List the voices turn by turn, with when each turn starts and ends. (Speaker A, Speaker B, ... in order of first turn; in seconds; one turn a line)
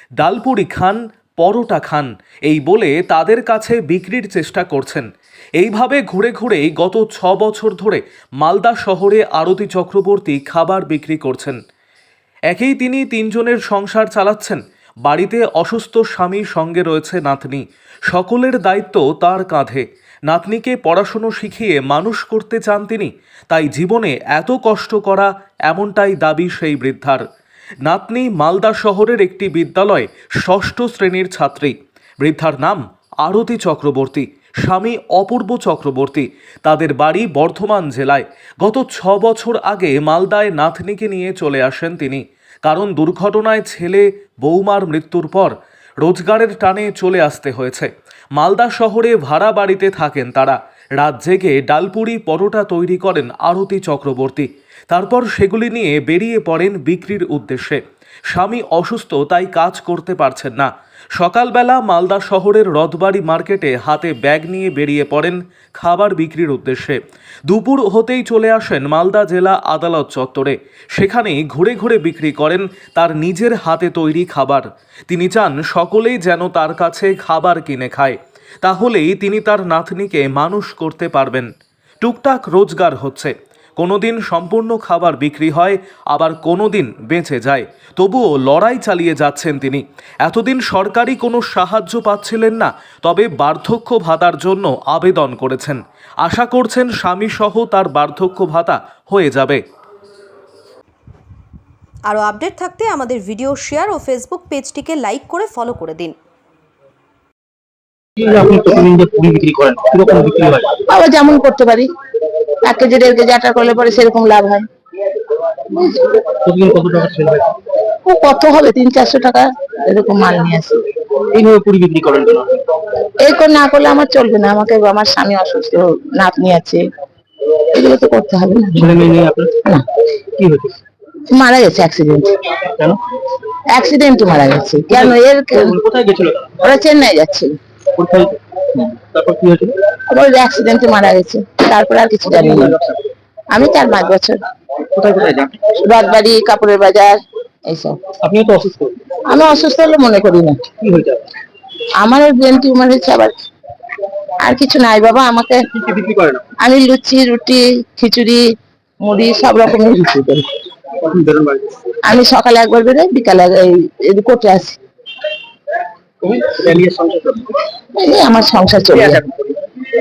Speaker A: 0.2-5.0
Speaker A: 5.6-11.6
Speaker A: 12.5-27.2
Speaker A: 27.8-57.8
Speaker A: 58.3-81.5
Speaker A: 82.0-99.6
Speaker B: 102.0-106.2
Speaker C: 108.2-110.8
Speaker D: 110.9-111.8
Speaker D: 112.6-114.6
Speaker C: 116.3-117.5
Speaker D: 118.0-120.8
Speaker C: 121.3-122.6
Speaker D: 123.2-126.8
Speaker D: 127.7-129.0
Speaker C: 128.8-129.6
Speaker C: 130.2-130.8
Speaker D: 131.3-132.4
Speaker C: 132.6-133.0
Speaker D: 133.7-135.8
Speaker C: 134.9-136.6
Speaker D: 136.6-137.6
Speaker C: 137.9-139.8
Speaker D: 140.1-142.7
Speaker C: 142.2-143.0
Speaker D: 143.5-144.4
Speaker C: 144.9-145.7
Speaker D: 145.7-148.0
Speaker C: 148.2-149.2
Speaker D: 149.3-150.6
Speaker C: 150.8-151.2
Speaker D: 152.0-153.3
Speaker D: 154.4-155.6
Speaker C: 155.7-156.5
Speaker D: 156.6-158.4
Speaker D: 159.0-160.4
Speaker C: 161.0-161.9
Speaker D: 162.0-164.8
Speaker C: 166.2-167.6
Speaker D: 167.9-169.2
Speaker C: 169.0-169.4